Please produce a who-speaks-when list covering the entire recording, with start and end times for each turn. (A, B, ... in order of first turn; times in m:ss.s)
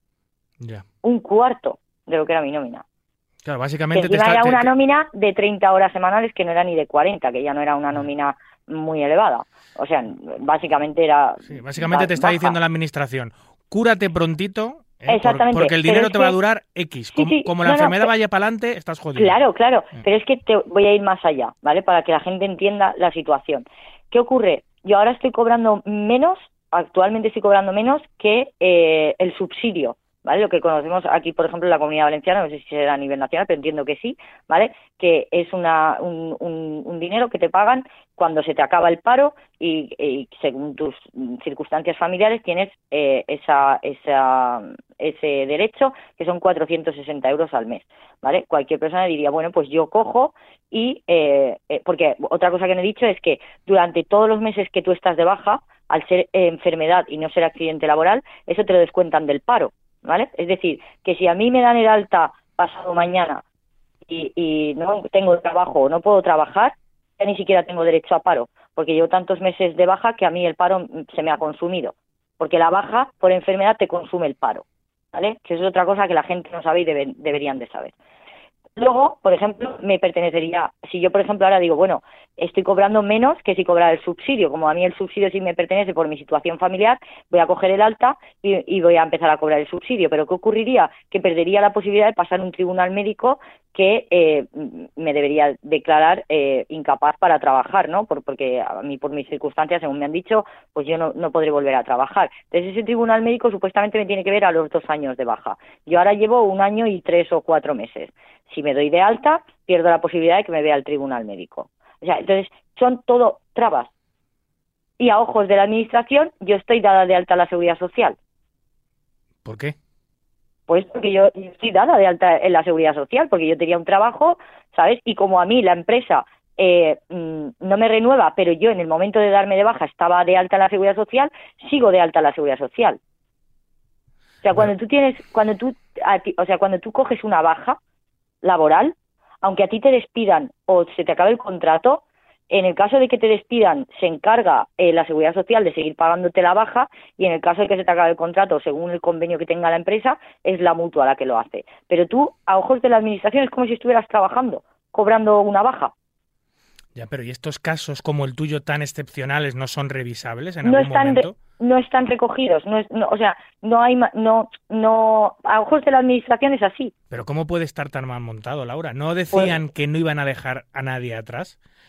0:00.6-0:00.8 A
0:01.0-0:02.8 B
0:03.4-0:04.7 A
0:03.9-0:12.6 B
0:11.5-0:19.4 A
0:15.1-0:16.4 B
0:17.1-0:18.1 B
0:19.2-1:03.4 B
1:04.1-1:17.9 B
1:18.8-1:53.9 B
1:55.0-1:58.2 B
1:59.4-1:59.8 A
2:00.7-2:13.0 B
2:14.4-2:17.8 B
2:18.4-2:35.9 B
2:37.0-2:41.4 A
2:40.6-2:46.9 B
2:47.1-2:51.6 A
2:49.3-2:49.6 B